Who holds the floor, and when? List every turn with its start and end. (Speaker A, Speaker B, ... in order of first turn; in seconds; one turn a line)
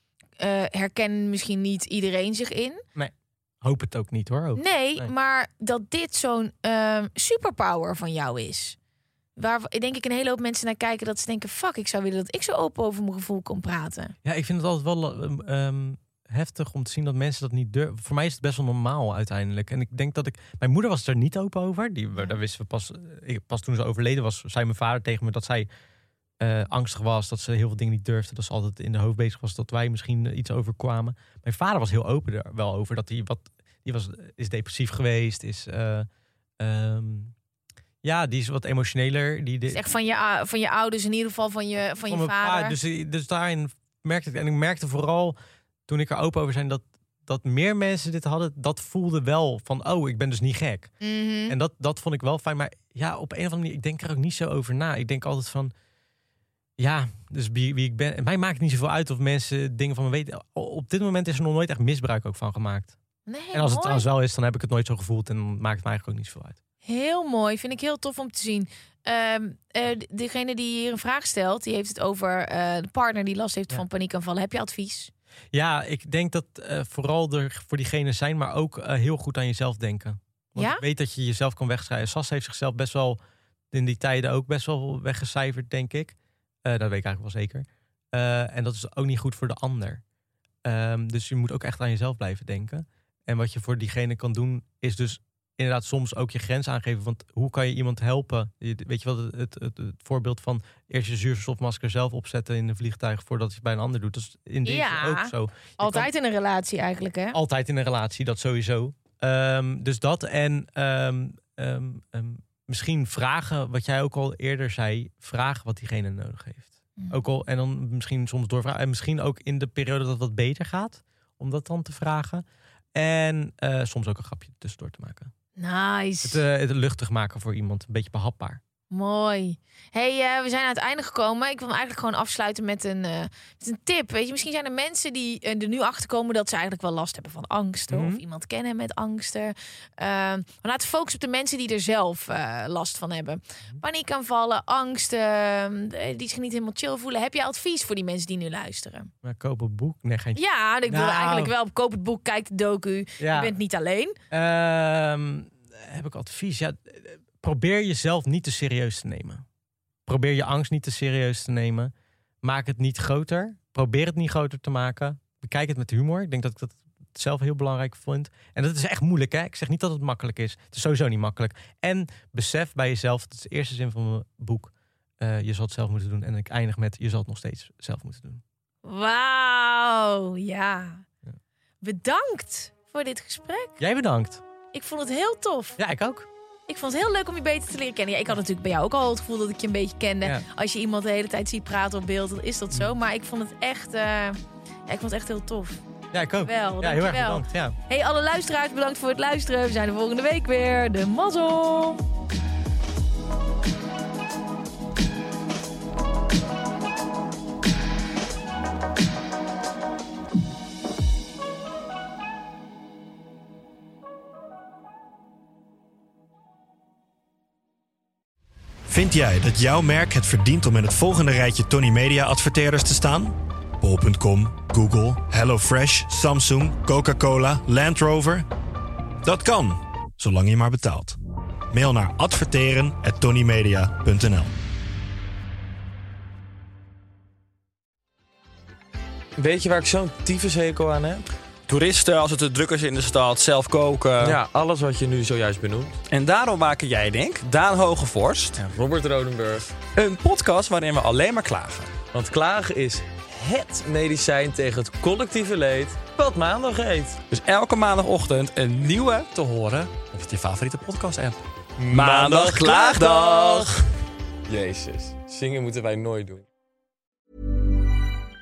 Speaker A: 0.4-2.8
Speaker B: 3.0-5.1
Speaker A: 4.6-8.8
Speaker A: 9.4-14.1
Speaker B: 14.2-25.7
Speaker B: 26.4-36.1
Speaker B: 36.6-37.3
Speaker B: 38.0-39.8
Speaker A: 39.7-42.8
Speaker B: 42.1-45.4
Speaker B: 45.9-50.9
Speaker A: 51.0-51.5
Speaker B: 51.5-55.7
Speaker B: 56.8-63.0
Speaker A: 63.3-64.1
Speaker B: 63.5-66.6
Speaker A: 66.8-75.1
Speaker B: 75.5-83.2
Speaker A: 80.6-80.8
Speaker B: 83.7-90.0
Speaker B: 90.6-106.1
Speaker A: 104.7-107.4
Speaker B: 107.3-125.3
Speaker A: 117.0-117.2
Speaker A: 125.6-126.4
Speaker B: 126.2-128.6
Speaker A: 128.9-149.1
Speaker B: 137.9-138.2
Speaker B: 149.2-151.5
Speaker A: 150.3-154.2
Speaker B: 153.2-153.5
Speaker B: 154.3-159.4
Speaker B: 160.1-178.4
Speaker A: 178.8-181.1
Speaker A: 181.8-183.8
Speaker B: 183.8-184.4
Speaker A: 184.7-185.8
Speaker B: 185.8-186.3
Speaker A: 186.7-195.8
Speaker B: 196.1-197.8
Speaker A: 196.4-202.0
Speaker C: 218.9-228.5
Speaker C: 229.2-231.2
Speaker C: 231.7-234.5
Speaker D: 239.4-241.2
Speaker E: 241.7-244.4
Speaker D: 244.2-246.0
Speaker E: 246.1-248.7
Speaker D: 248.6-249.7
Speaker E: 249.9-252.0
Speaker D: 252.1-257.2
Speaker E: 257.3-263.7
Speaker D: 261.8-263.7
Speaker D: 264.5-266.5